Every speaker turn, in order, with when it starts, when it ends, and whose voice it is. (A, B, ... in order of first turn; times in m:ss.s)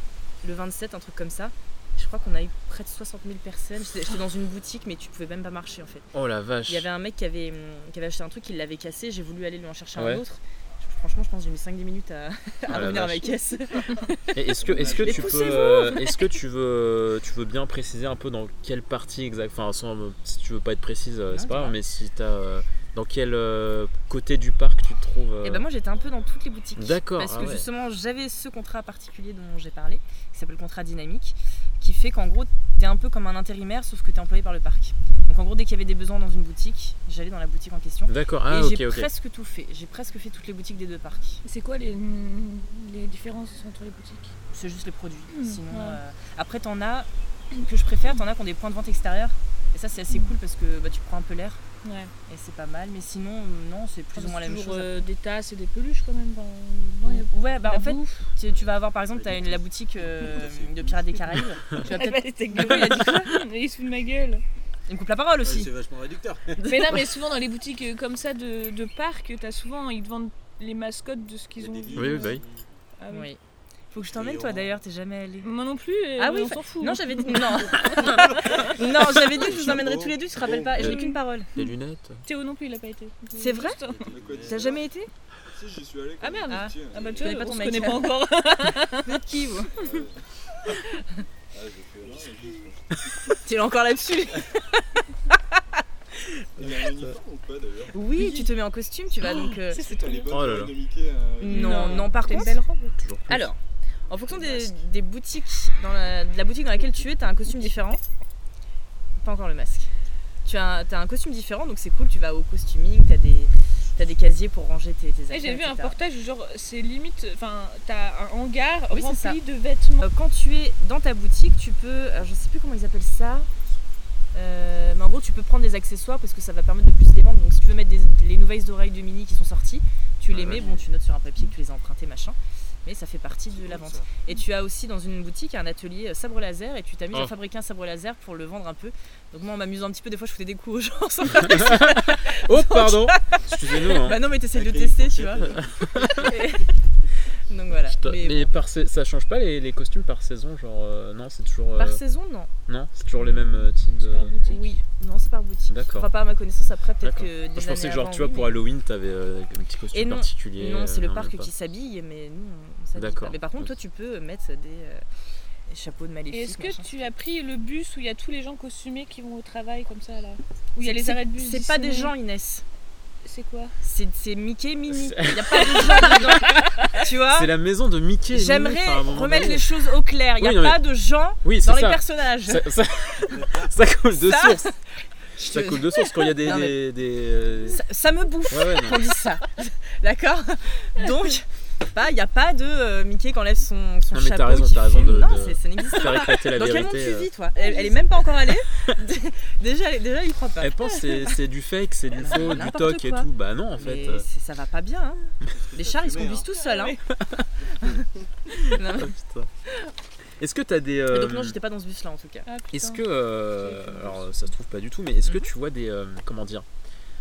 0:00.4-0:06.1 A
0:06.1-0:06.9 B
0:06.7-0:15.8 A
0:10.0-0:10.2 B
0:12.7-0:13.4 B
0:14.4-0:25.7 B
0:14.7-0:16.3 C
0:14.7-0:15.3 D
0:21.3-0:21.8 A
0:25.4-0:41.4 A
0:26.8-0:27.7 B
0:38.1-0:39.1 B
0:41.4-0:44.4 C
0:44.5-0:51.6 A
0:45.3-0:46.0 C
0:51.8-0:52.1 C
0:52.3-0:55.1 A
0:54.1-0:58.3 C
0:57.0-1:03.4 A
0:58.5-0:59.6 D
1:00.2-1:01.2 D
1:01.8-1:04.4 C
1:04.9-1:05.7 A
1:05.4-1:06.7 D
1:06.6-1:06.9 A
1:06.6-1:12.4 C
1:11.6-1:12.7 D
1:11.9-1:12.4 B
1:13.0-1:13.3 C
1:13.1-1:13.4 A
1:13.9-1:15.5 A
1:14.1-1:14.7 D
1:15.4-1:18.7 C
1:16.2-1:21.5 A
1:17.9-1:20.7 D
1:20.8-1:21.0 B
1:20.8-1:21.7 C
1:21.6-1:22.2 B
1:22.2-1:24.0 C
1:23.4-1:23.8 A
1:23.8-1:24.8 D
1:24.1-1:24.8 E
1:24.4-1:25.1 A
1:25.5-1:28.0 E
1:26.2-1:29.2 C
1:26.5-1:28.2 A
1:29.0-1:30.0 A
1:29.7-1:30.7 E
1:31.5-1:33.4 E
1:33.4-1:35.0 A
1:36.6-1:38.0 E
1:36.6-1:37.1 B
1:37.9-1:39.8 A
1:38.2-1:38.5 C
1:39.2-1:40.3 C
1:39.8-1:42.4 E
1:40.3-1:40.8 B
1:41.4-1:42.6 A
1:41.5-1:43.0 C
1:43.0-1:43.5 B
1:43.3-1:48.0 A
1:49.2-1:49.9 A
1:50.4-1:56.0 A
1:55.3-2:00.1 C
1:58.9-1:59.4 A
2:00.0-2:03.5 A
2:04.3-2:26.7 A
2:10.3-2:10.6 B
2:10.5-2:10.9 D
2:13.5-2:14.1 D
2:21.4-2:24.2 B
2:24.5-2:26.2 D
2:25.5-2:26.4 B
2:27.5-2:28.5 A
2:27.9-2:32.0 B
2:31.8-2:32.5 A
2:32.7-2:34.4 B
2:34.0-2:34.8 C
2:34.5-2:38.6 A
2:35.7-2:36.1 B
2:37.0-2:41.5 B
2:39.9-2:45.0 A
2:43.0-2:43.7 B
2:45.7-2:47.1 A
2:46.3-2:52.1 C
2:50.8-2:52.6 A
2:53.2-2:53.7 C
2:53.8-2:57.5 A
2:54.9-2:55.8 B
2:55.8-2:56.2 C
2:57.3-2:59.7 B
2:58.3-3:02.7 A
3:00.4-3:00.8 B
3:01.4-3:04.7 B
3:03.3-3:03.8 D
3:04.1-3:04.8 A
3:05.4-3:06.8 A
3:05.4-3:07.8 B
3:07.7-3:20.8 A
3:08.5-3:09.1 B
3:11.0-3:11.2 C
3:14.1-3:17.3 B
3:17.6-3:18.0 C
3:20.6-3:24.3 B
3:22.1-3:27.0 A
3:25.5-3:26.5 D
3:26.6-3:27.0 C
3:27.2-3:27.4 B
3:27.7-3:28.0 A
3:28.5-3:29.5 B
3:28.7-3:29.1 A
3:30.4-3:31.6 B
3:31.1-3:32.5 A
3:32.5-3:34.5 C
3:32.7-3:36.7 B
3:35.2-3:35.5 A